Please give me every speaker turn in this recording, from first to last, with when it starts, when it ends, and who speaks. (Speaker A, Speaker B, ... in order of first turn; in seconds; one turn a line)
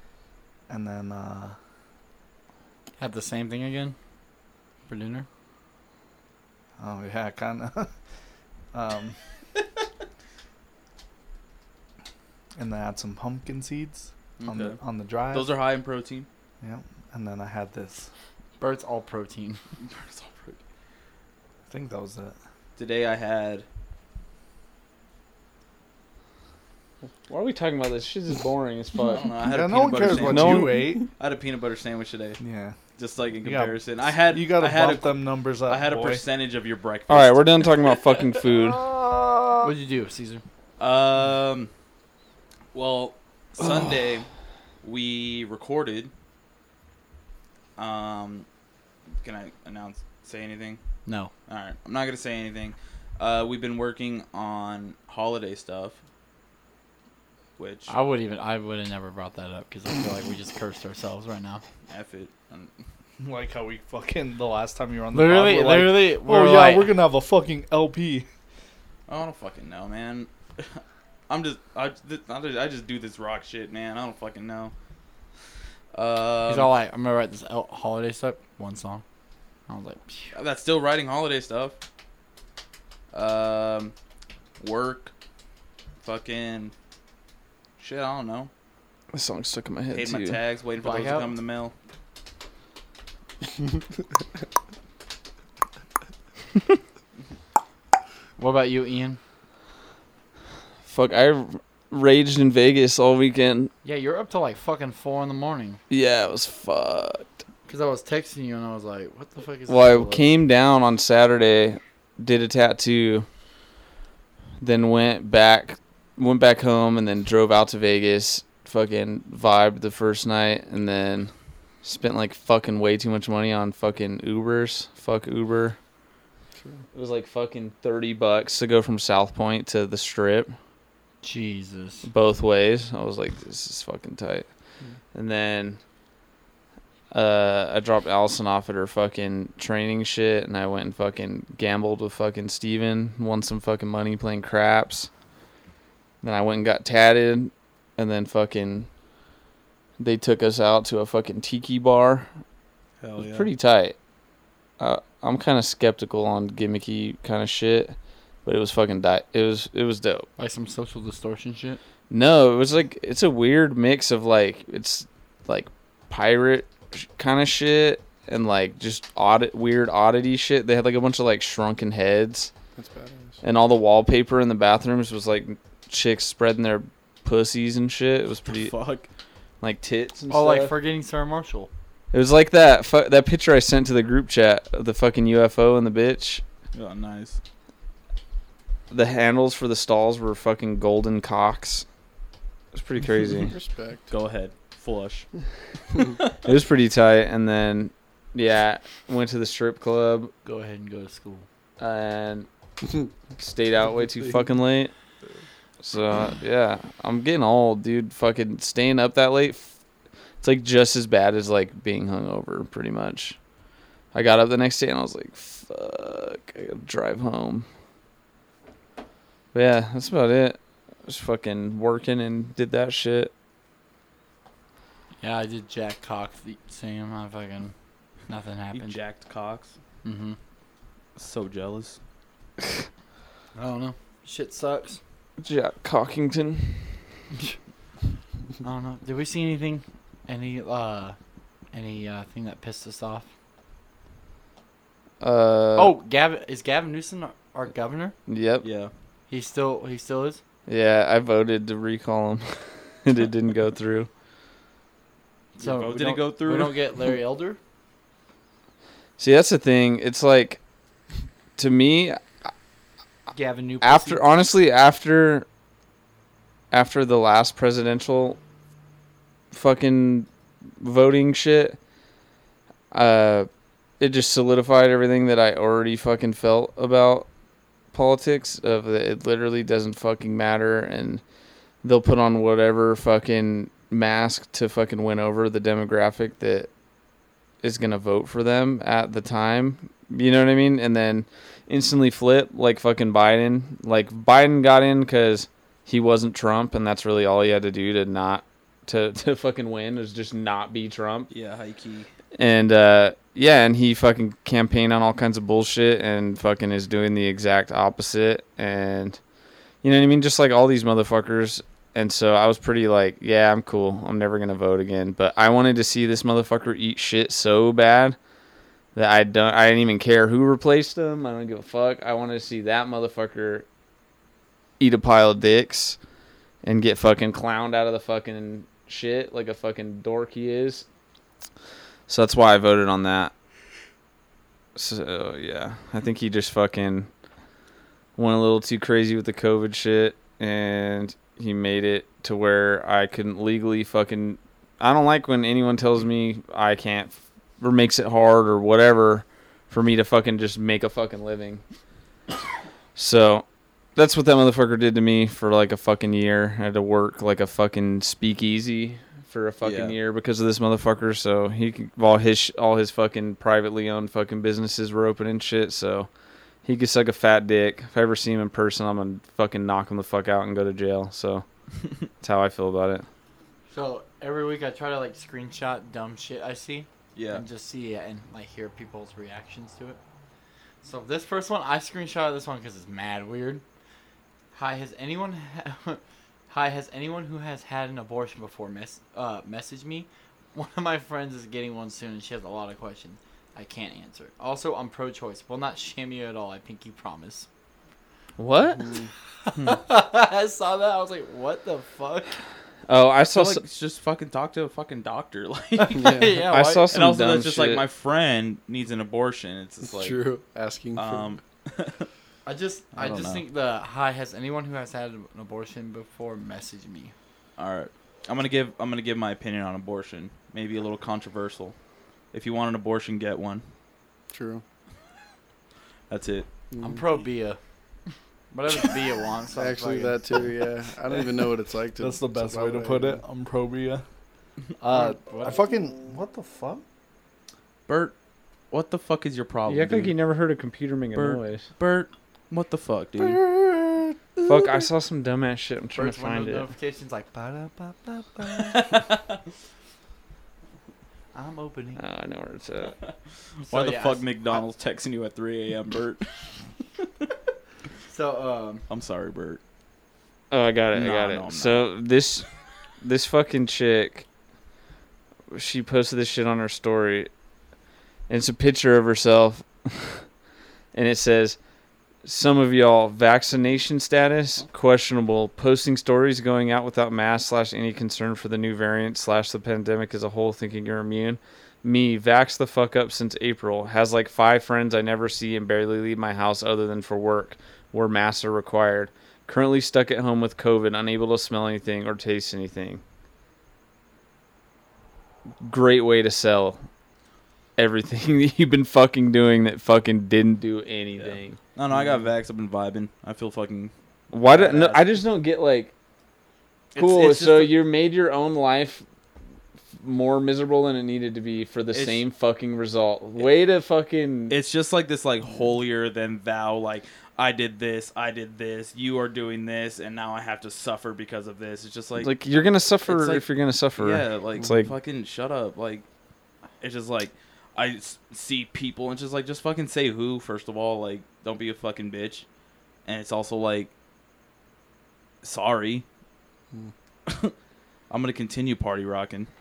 Speaker A: 0.7-1.6
Speaker B: 3.0-4.0
Speaker B: 4.9-5.3
Speaker A: 6.8-7.9
Speaker A: 8.7-9.2
Speaker A: 12.6-15.5
Speaker C: 14.4-14.8
Speaker C: 15.3-16.3
Speaker A: 16.6-18.1
Speaker B: 18.6-19.6
Speaker C: 19.8-20.6
Speaker A: 21.7-22.4
Speaker C: 22.8-23.7
Speaker D: 27.3-29.4
Speaker C: 29.0-32.4
Speaker A: 29.5-31.1
Speaker D: 29.9-31.0
Speaker A: 32.4-32.8
Speaker C: 33.0-37.7
Speaker A: 33.4-36.2
Speaker D: 37.1-39.4
Speaker B: 39.6-40.4
Speaker C: 40.8-41.7
Speaker C: 42.7-44.3
Speaker C: 44.8-46.1
Speaker C: 47.8-48.5
Speaker C: 49.2-50.8
Speaker B: 51.1-51.3
Speaker C: 51.5-56.0
Speaker C: 57.6-57.9
Speaker B: 57.9-61.6
Speaker C: 61.9-62.7
Speaker A: 63.2-68.3
Speaker B: 65.1-67.0
Speaker C: 69.1-74.7
Speaker C: 75.9-76.7
Speaker B: 76.5-79.0
Speaker B: 79.7-80.3
Speaker C: 80.3-81.8
Speaker C: 83.1-83.9
Speaker C: 84.6-85.1
Speaker C: 86.0-86.7
Speaker C: 87.8-88.5
Speaker D: 89.1-90.4
Speaker C: 89.9-91.7
Speaker B: 90.8-91.3
Speaker B: 98.4-99.2
Speaker D: 100.8-103.7
Speaker B: 103.8-105.8
Speaker D: 105.9-107.3
Speaker B: 107.7-110.3
Speaker D: 109.7-113.3
Speaker D: 114.6-121.3
Speaker D: 121.8-125.8
Speaker E: 126.6-126.8
Speaker D: 126.9-130.5
Speaker B: 131.2-132.1
Speaker D: 132.1-134.5
Speaker D: 135.1-135.8
Speaker D: 137.1-145.1
Speaker D: 146.2-148.9
Speaker D: 150.0-152.3
Speaker C: 153.0-153.5
Speaker D: 153.2-154.0
Speaker D: 154.8-160.3
Speaker B: 160.4-161.8
Speaker D: 162.1-172.5
Speaker E: 172.8-173.4
Speaker D: 173.4-178.7
Speaker C: 178.4-179.1
Speaker D: 179.6-180.8
Speaker B: 180.3-181.7
Speaker D: 182.1-186.4
Speaker C: 186.7-187.4
Speaker D: 188.9-191.8
Speaker D: 192.7-193.6
Speaker E: 193.4-194.1
Speaker C: 194.1-195.3
Speaker C: 196.0-196.3
Speaker D: 196.4-200.3
Speaker B: 200.4-201.5
Speaker D: 201.8-202.5
Speaker D: 203.3-204.9
Speaker D: 205.8-209.7
Speaker D: 210.4-213.4
Speaker D: 214.1-217.7
Speaker D: 219.5-223.3
Speaker B: 225.2-227.7
Speaker B: 228.3-229.0
Speaker C: 228.7-229.7
Speaker B: 230.0-230.4
Speaker C: 231.2-232.0
Speaker B: 233.6-235.0
Speaker D: 235.4-237.0
Speaker B: 238.6-241.2
Speaker B: 241.7-243.3
Speaker D: 245.2-246.0
Speaker B: 245.8-248.2
Speaker D: 248.3-248.7
Speaker C: 248.6-248.9
Speaker B: 249.3-250.4
Speaker D: 250.7-254.1
Speaker B: 255.6-257.6
Speaker C: 255.6-256.8
Speaker D: 259.2-260.6
Speaker D: 261.6-262.2
Speaker B: 263.3-264.3
Speaker D: 263.8-265.5
Speaker D: 266.7-268.4
Speaker D: 269.5-270.3
Speaker D: 270.8-271.8
Speaker D: 272.9-273.5
Speaker D: 274.0-277.3
Speaker D: 277.9-281.2
Speaker D: 281.8-286.7
Speaker D: 287.6-301.3
Speaker C: 301.3-302.1
Speaker D: 302.4-309.2
Speaker D: 309.8-318.2
Speaker D: 318.9-323.7
Speaker D: 324.8-326.0
Speaker D: 326.6-330.9
Speaker D: 332.1-333.3
Speaker D: 334.8-337.1
Speaker D: 338.2-351.6
Speaker D: 352.9-366.1
Speaker C: 359.6-360.0
Speaker D: 366.6-371.4
Speaker D: 372.2-373.1
Speaker B: 373.7-380.0
Speaker C: 377.1-377.4
Speaker B: 380.8-383.6
Speaker B: 384.5-397.5
Speaker D: 398.4-398.9
Speaker E: 398.8-399.1
Speaker B: 399.4-402.4
Speaker D: 402.9-403.6
Speaker C: 403.3-406.3
Speaker B: 405.8-406.9
Speaker E: 406.0-406.3
Speaker D: 406.5-407.9
Speaker C: 406.9-410.2
Speaker E: 409.8-411.4
Speaker C: 410.9-412.1
Speaker B: 412.4-417.1
Speaker C: 412.9-413.4
Speaker C: 417.6-421.8
Speaker C: 422.3-423.6
Speaker E: 424.3-424.6
Speaker C: 426.1-426.5
Speaker E: 426.7-427.0
Speaker B: 426.8-427.6
Speaker B: 428.5-430.3
Speaker E: 429.6-433.2
Speaker A: 432.0-434.0
Speaker A: 434.8-436.8
Speaker B: 434.9-435.6
Speaker C: 437.9-438.1
Speaker C: 438.7-440.2
Speaker D: 439.7-441.7
Speaker C: 441.1-443.4
Speaker D: 444.4-446.7
Speaker B: 445.9-449.0
Speaker C: 448.5-449.4
Speaker B: 451.3-452.0
Speaker D: 452.0-452.9
Speaker C: 453.6-456.3
Speaker B: 453.7-454.6
Speaker B: 458.1-458.9
Speaker C: 458.9-459.6
Speaker D: 460.5-462.5
Speaker C: 460.9-461.9
Speaker D: 463.0-464.2
Speaker D: 465.5-467.3
Speaker D: 468.3-470.2
Speaker D: 470.9-471.6
Speaker D: 472.2-493.0
Speaker D: 495.6-496.8
Speaker D: 497.8-501.6
Speaker C: 501.2-503.9
Speaker D: 504.3-505.9
Speaker C: 504.5-505.0
Speaker C: 506.9-507.8
Speaker D: 507.0-509.1
Speaker D: 510.0-514.6
Speaker C: 511.9-512.2
Speaker C: 514.5-522.3
Speaker D: 522.2-524.9
Speaker C: 523.0-523.5
Speaker C: 524.0-526.1
Speaker C: 526.8-532.5
Speaker C: 533.0-533.9
Speaker C: 535.4-536.0
Speaker C: 537.3-537.5
Speaker C: 538.1-539.5